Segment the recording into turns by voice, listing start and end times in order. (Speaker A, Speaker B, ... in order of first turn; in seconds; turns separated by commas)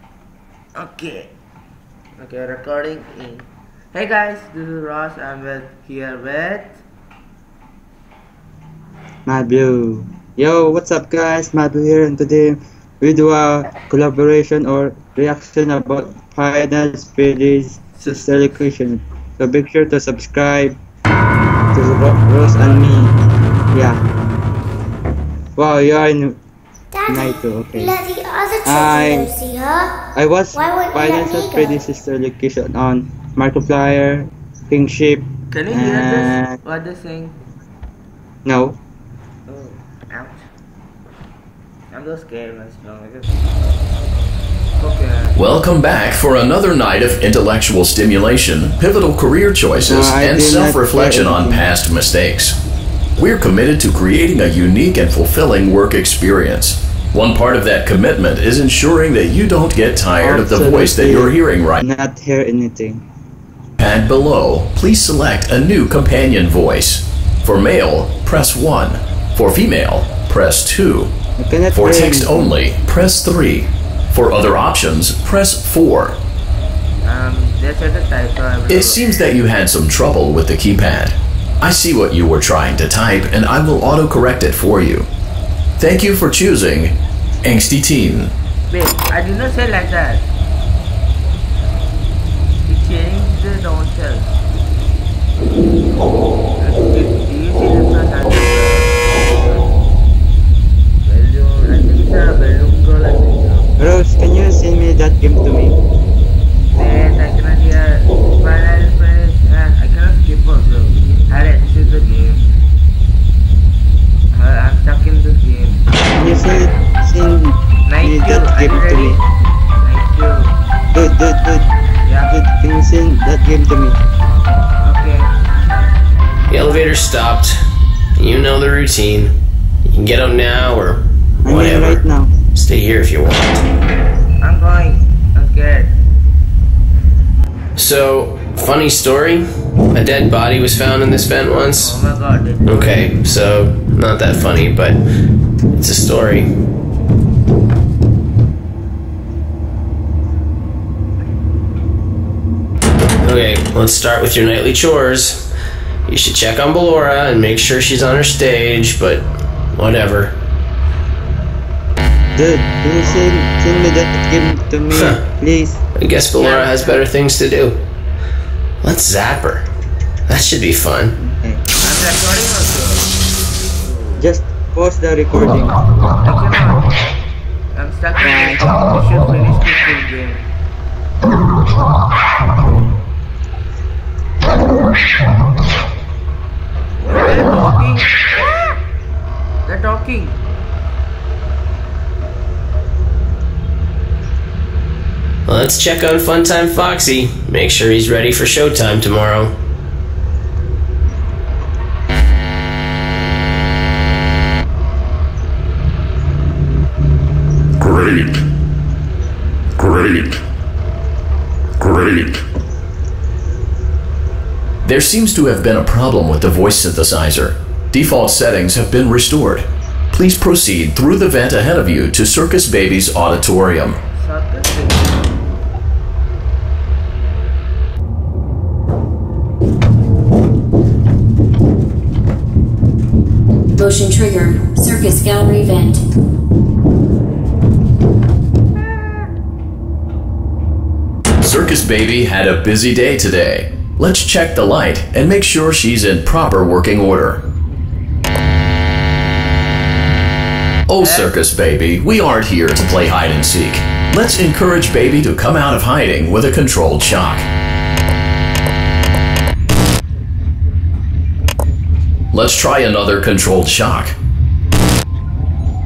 Speaker A: 0.7-1.3, Speaker A: 2.2-6.8, Speaker B: 9.2-20.8, Speaker A: 17.9-18.6, Speaker B: 21.7-23.1, Speaker A: 22.5-22.9, Speaker B: 23.7-24.0, Speaker B: 25.6-26.4, Speaker C: 26.9-29.9, Speaker B: 27.1-28.0, Speaker B: 28.6-29.3, Speaker B: 30.1-36.6, Speaker C: 30.5-31.8, Speaker A: 35.5-37.4, Speaker B: 38.5-38.8, Speaker A: 39.5-40.5, Speaker A: 41.9-43.4, Speaker A: 44.8-45.4, Speaker D: 45.4-52.5, Speaker B: 49.9-51.7, Speaker D: 53.2-61.8, Speaker B: 60.2-63.0, Speaker D: 63.8-71.1, Speaker B: 71.4-72.5, Speaker D: 71.7-76.2, Speaker A: 77.0-79.0, Speaker D: 78.7-85.1, Speaker D: 85.8-88.3, Speaker A: 88.7-90.3, Speaker A: 92.7-94.4, Speaker A: 96.6-99.8, Speaker A: 101.0-103.7, Speaker B: 103.8-105.8, Speaker A: 106.7-112.5, Speaker A: 114.3-115.8, Speaker B: 116.1-119.2, Speaker A: 117.9-119.2, Speaker A: 119.8-120.5, Speaker B: 120.9-121.7, Speaker A: 122.1-122.4, Speaker B: 122.2-124.0, Speaker A: 124.8-125.3, Speaker E: 126.5-127.5, Speaker E: 128.2-129.3, Speaker E: 129.9-132.0, Speaker B: 131.4-132.3, Speaker E: 132.6-133.6, Speaker A: 134.4-136.0, Speaker E: 137.8-142.0, Speaker A: 141.7-143.2, Speaker E: 142.7-145.0, Speaker E: 145.8-146.5, Speaker E: 153.2-155.4, Speaker E: 156.1-159.2, Speaker E: 159.8-160.3, Speaker B: 162.3-165.8, Speaker A: 163.0-163.3, Speaker E: 164.9-165.2, Speaker E: 166.0-167.8, Speaker A: 166.3-167.1, Speaker E: 168.8-169.7, Speaker E: 170.3-171.1, Speaker B: 171.2-171.6, Speaker A: 171.8-173.1, Speaker A: 173.8-174.3, Speaker B: 174.2-175.8, Speaker A: 176.2-176.9, Speaker A: 177.7-180.5, Speaker B: 178.2-178.9, Speaker A: 187.0-188.1, Speaker A: 189.7-190.4, Speaker E: 195.5-199.5, Speaker D: 211.8-212.2, Speaker D: 214.8-224.0, Speaker A: 224.1-225.3, Speaker F: 233.8-236.0, Speaker D: 241.4-247.4, Speaker D: 250.9-257.4, Speaker A: 251.0-251.3, Speaker D: 262.3-264.1